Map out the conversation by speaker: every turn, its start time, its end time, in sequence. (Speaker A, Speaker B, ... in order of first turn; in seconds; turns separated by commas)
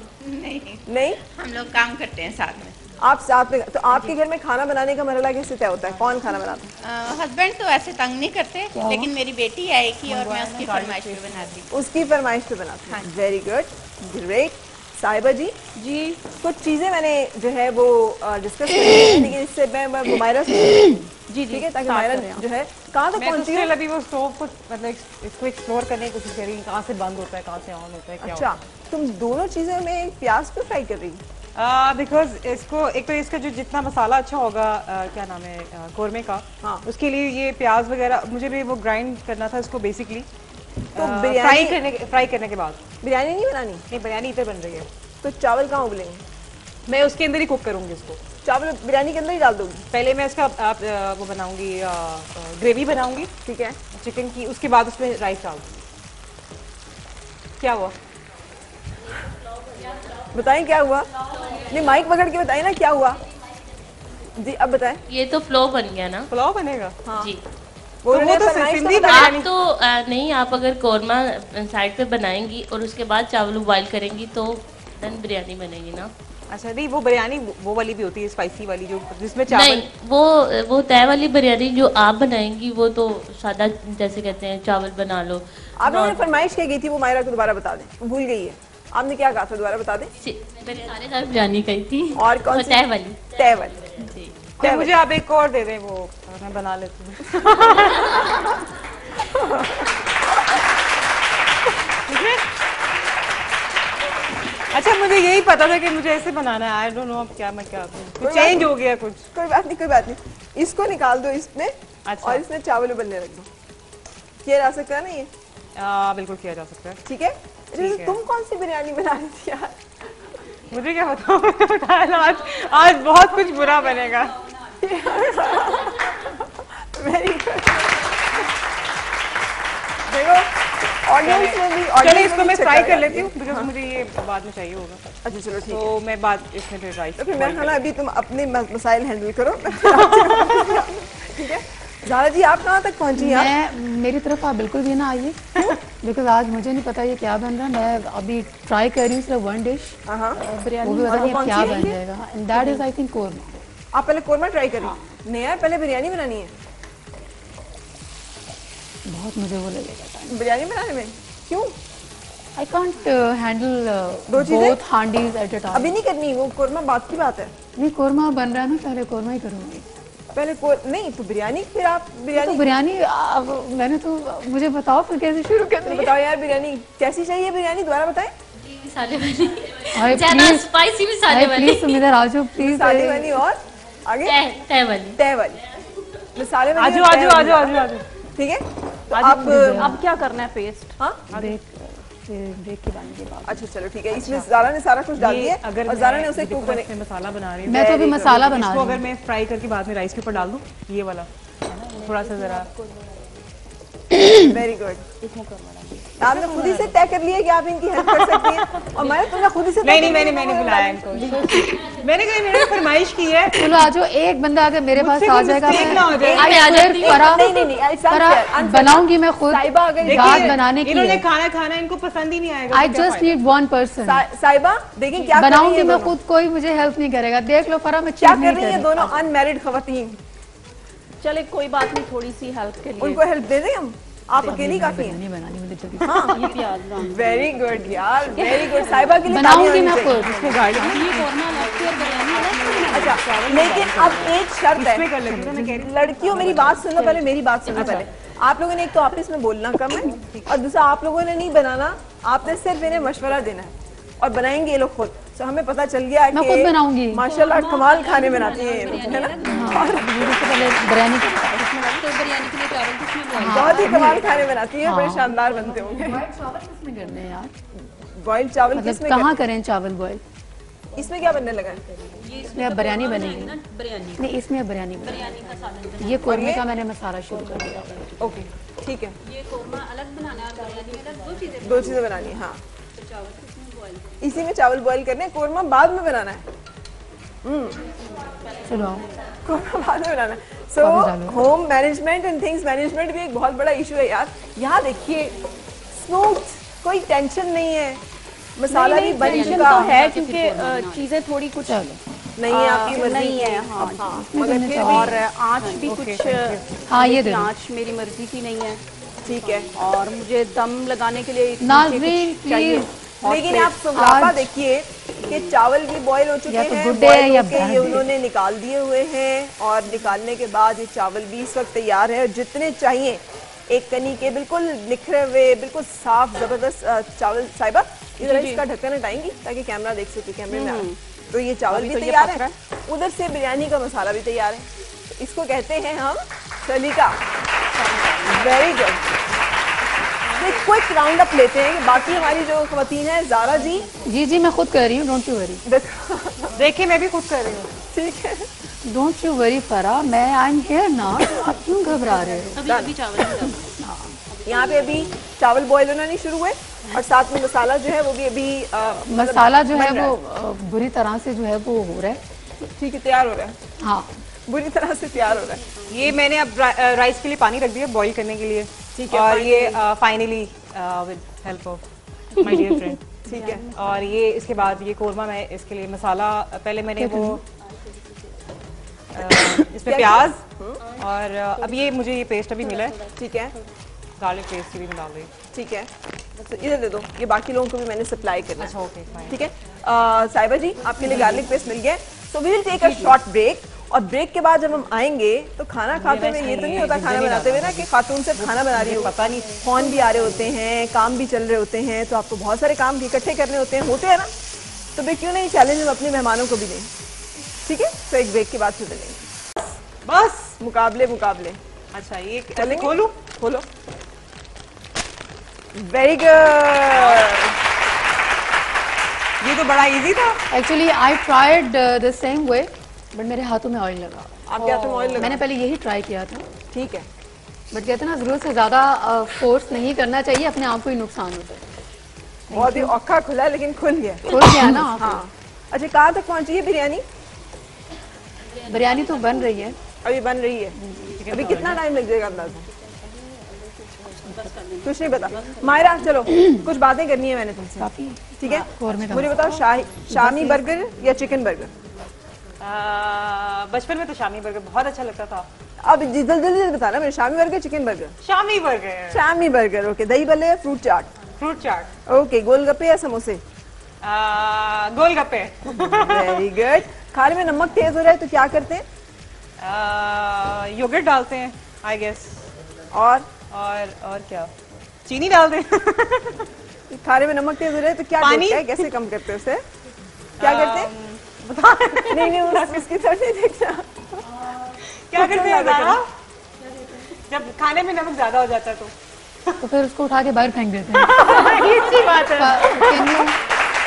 Speaker A: 0.2-2.8, Speaker B: 0.9-1.2, Speaker B: 3.0-6.7, Speaker A: 6.8-11.7, Speaker C: 8.7-9.1, Speaker D: 10.1-11.4, Speaker B: 11.7-15.6, Speaker E: 15.8-16.2, Speaker B: 16.3-23.7, Speaker E: 21.3-22.4, Speaker D: 23.2-28.5, Speaker B: 28.2-31.2, Speaker D: 31.6-40.3, Speaker B: 36.6-36.9, Speaker B: 41.0-41.8, Speaker D: 41.0-42.8, Speaker B: 43.0-43.8, Speaker D: 43.9-44.9, Speaker B: 45.2-46.2, Speaker D: 46.9-48.2, Speaker B: 48.4-49.9, Speaker D: 49.9-53.3, Speaker B: 53.5-53.8, Speaker D: 53.9-55.7, Speaker D: 57.6-58.0, Speaker B: 60.3-63.2, Speaker B: 64.4-65.0, Speaker F: 65.1-66.3, Speaker D: 66.3-67.0, Speaker B: 67.0-67.3, Speaker F: 67.1-67.4, Speaker B: 68.0-69.4, Speaker D: 68.1-69.5, Speaker F: 69.0-76.1, Speaker D: 76.5-79.9, Speaker F: 79.5-86.2, Speaker B: 85.8-90.1, Speaker F: 90.2-93.2, Speaker G: 90.6-92.0, Speaker B: 92.1-93.8, Speaker G: 94.0-94.5, Speaker B: 94.6-94.9, Speaker D: 94.6-98.5, Speaker B: 99.2-99.9, Speaker D: 102.1-102.5, Speaker D: 104.7-109.3, Speaker B: 108.2-108.7, Speaker B: 109.3-113.5, Speaker D: 112.1-112.4, Speaker B: 114.5-115.3, Speaker D: 115.8-117.0, Speaker B: 117.0-119.8, Speaker D: 117.8-118.2, Speaker D: 120.7-124.4, Speaker B: 124.8-127.9, Speaker B: 130.1-133.7, Speaker D: 131.2-135.0, Speaker B: 135.2-135.9, Speaker D: 135.7-137.8, Speaker B: 137.2-143.5, Speaker D: 139.8-140.9, Speaker C: 143.2-150.0, Speaker B: 150.1-150.4, Speaker E: 150.4-151.9, Speaker C: 150.8-153.6, Speaker B: 151.1-151.9, Speaker B: 153.9-156.5, Speaker C: 159.1-160.4, Speaker B: 160.3-161.8, Speaker C: 162.6-165.9, Speaker B: 164.3-164.8, Speaker B: 165.7-167.5, Speaker C: 167.8-169.9, Speaker B: 170.3-172.7, Speaker C: 172.3-176.2, Speaker B: 175.8-178.3, Speaker F: 179.0-182.0, Speaker C: 179.9-180.7, Speaker C: 181.3-183.4, Speaker B: 182.6-184.4, Speaker F: 184.2-185.2, Speaker B: 185.2-185.6, Speaker B: 186.3-190.0, Speaker D: 186.8-188.0, Speaker C: 189.1-190.0, Speaker E: 189.8-190.9, Speaker B: 191.0-191.3, Speaker C: 191.3-193.7, Speaker B: 193.4-196.9, Speaker D: 194.1-194.5, Speaker D: 195.2-202.7, Speaker C: 197.7-199.1, Speaker B: 197.7-198.3, Speaker G: 201.8-203.4, Speaker C: 204.2-204.5, Speaker B: 204.4-205.0, Speaker G: 205.2-206.8, Speaker B: 206.2-211.2, Speaker D: 206.2-206.9, Speaker D: 208.0-209.2, Speaker D: 209.8-213.9, Speaker C: 211.1-211.8, Speaker G: 211.4-212.0, Speaker C: 213.5-221.3, Speaker D: 214.9-216.8, Speaker F: 216.1-217.4, Speaker B: 216.2-220.6, Speaker D: 220.1-223.3, Speaker C: 222.7-224.2, Speaker B: 224.1-226.2, Speaker C: 225.3-229.2, Speaker B: 228.2-230.2, Speaker E: 231.2-233.2, Speaker B: 233.0-235.2, Speaker C: 234.4-236.6, Speaker B: 236.0-236.4, Speaker G: 236.3-238.9, Speaker E: 236.4-237.3, Speaker B: 237.0-240.3, Speaker E: 238.2-239.2, Speaker C: 239.2-241.3, Speaker D: 240.0-244.1, Speaker G: 240.8-244.3, Speaker E: 242.7-243.7, Speaker B: 242.9-245.1, Speaker D: 244.7-247.0, Speaker C: 245.2-245.9, Speaker B: 245.8-260.4, Speaker G: 247.7-248.0, Speaker D: 247.7-248.0, Speaker D: 250.1-250.5, Speaker C: 256.3-257.3, Speaker G: 257.2-260.7, Speaker C: 259.4-261.7, Speaker G: 261.8-264.5, Speaker C: 263.3-267.5, Speaker B: 263.4-266.2, Speaker G: 265.4-266.3, Speaker B: 268.0-269.4, Speaker C: 268.7-270.2, Speaker B: 271.0-271.8, Speaker G: 271.2-274.3, Speaker C: 272.5-273.6, Speaker C: 274.2-278.2, Speaker G: 275.0-276.6, Speaker B: 276.2-276.6, Speaker G: 277.3-278.3, Speaker B: 278.2-279.2, Speaker G: 279.2-284.5, Speaker B: 281.6-282.6, Speaker B: 284.2-286.5, Speaker B: 287.4-287.8, Speaker G: 287.8-289.3, Speaker C: 288.6-289.1, Speaker B: 289.4-295.4, Speaker C: 290.8-291.4, Speaker B: 295.9-298.0, Speaker B: 298.6-300.0, Speaker E: 298.7-301.8, Speaker G: 299.1-301.1, Speaker C: 301.6-302.0, Speaker B: 302.4-305.2, Speaker E: 302.5-308.8, Speaker C: 304.1-305.2, Speaker D: 305.8-306.6, Speaker C: 306.9-307.5, Speaker B: 309.2-309.7, Speaker E: 309.7-313.8, Speaker C: 311.6-312.9, Speaker B: 313.2-337.2, Speaker C: 313.9-314.5, Speaker E: 315.2-315.5, Speaker C: 316.5-318.1, Speaker E: 328.2-328.6, Speaker E: 330.5-331.0, Speaker E: 331.7-332.6, Speaker E: 337.7-338.7, Speaker G: 337.9-338.6, Speaker B: 338.2-339.0, Speaker G: 340.3-340.7, Speaker B: 340.4-343.9, Speaker G: 342.0-342.4, Speaker G: 343.4-344.1, Speaker C: 344.0-345.6, Speaker B: 345.7-346.6, Speaker D: 346.6-347.8, Speaker B: 347.9-348.5, Speaker C: 348.8-352.6, Speaker B: 352.1-352.9, Speaker G: 352.5-353.8, Speaker C: 353.7-354.2, Speaker G: 354.3-355.1, Speaker B: 354.4-360.1, Speaker C: 359.0-362.2, Speaker B: 362.8-363.6, Speaker C: 363.8-364.1, Speaker B: 364.5-365.6, Speaker D: 365.9-371.8, Speaker B: 368.9-369.8, Speaker D: 372.4-373.0, Speaker E: 372.4-373.7, Speaker B: 373.2-373.7, Speaker D: 373.7-377.4, Speaker C: 377.0-377.4, Speaker G: 377.8-378.2, Speaker D: 379.1-380.4, Speaker B: 379.7-380.8, Speaker D: 380.9-383.0, Speaker B: 383.1-383.5, Speaker D: 384.2-385.3, Speaker B: 385.5-388.7, Speaker D: 388.6-389.4, Speaker B: 389.3-404.3, Speaker E: 392.8-393.1, Speaker D: 395.9-400.3, Speaker B: 404.9-406.9, Speaker B: 407.6-409.3, Speaker D: 410.1-410.6, Speaker B: 410.6-411.6, Speaker D: 411.9-413.1, Speaker B: 412.6-413.6, Speaker B: 415.8-417.6, Speaker D: 416.9-417.4, Speaker D: 419.4-420.4, Speaker C: 420.5-426.5, Speaker B: 424.5-425.4, Speaker D: 424.6-425.3, Speaker B: 426.7-427.1, Speaker C: 427.7-431.6, Speaker C: 432.5-432.9, Speaker B: 432.5-437.0, Speaker C: 434.2-435.2, Speaker G: 438.5-439.7, Speaker C: 438.7-439.8, Speaker B: 440.0-442.7, Speaker C: 440.8-441.2, Speaker D: 441.2-441.9, Speaker G: 442.3-446.2, Speaker B: 444.8-451.7, Speaker C: 446.3-446.7, Speaker C: 447.8-450.7, Speaker D: 452.6-455.5, Speaker B: 455.8-458.1, Speaker D: 458.2-459.2, Speaker B: 459.1-461.1, Speaker D: 461.4-461.9, Speaker B: 462.1-463.4, Speaker D: 464.0-466.5, Speaker B: 465.7-468.9, Speaker D: 469.6-472.4, Speaker B: 472.9-473.3, Speaker D: 473.5-474.5, Speaker D: 475.1-476.5, Speaker B: 476.9-479.6, Speaker D: 478.2-478.9, Speaker D: 480.4-482.8, Speaker B: 480.4-480.9, Speaker B: 482.1-484.2, Speaker D: 484.2-486.1, Speaker B: 485.1-486.0, Speaker D: 487.3-488.9, Speaker C: 489.6-493.4, Speaker D: 490.9-493.3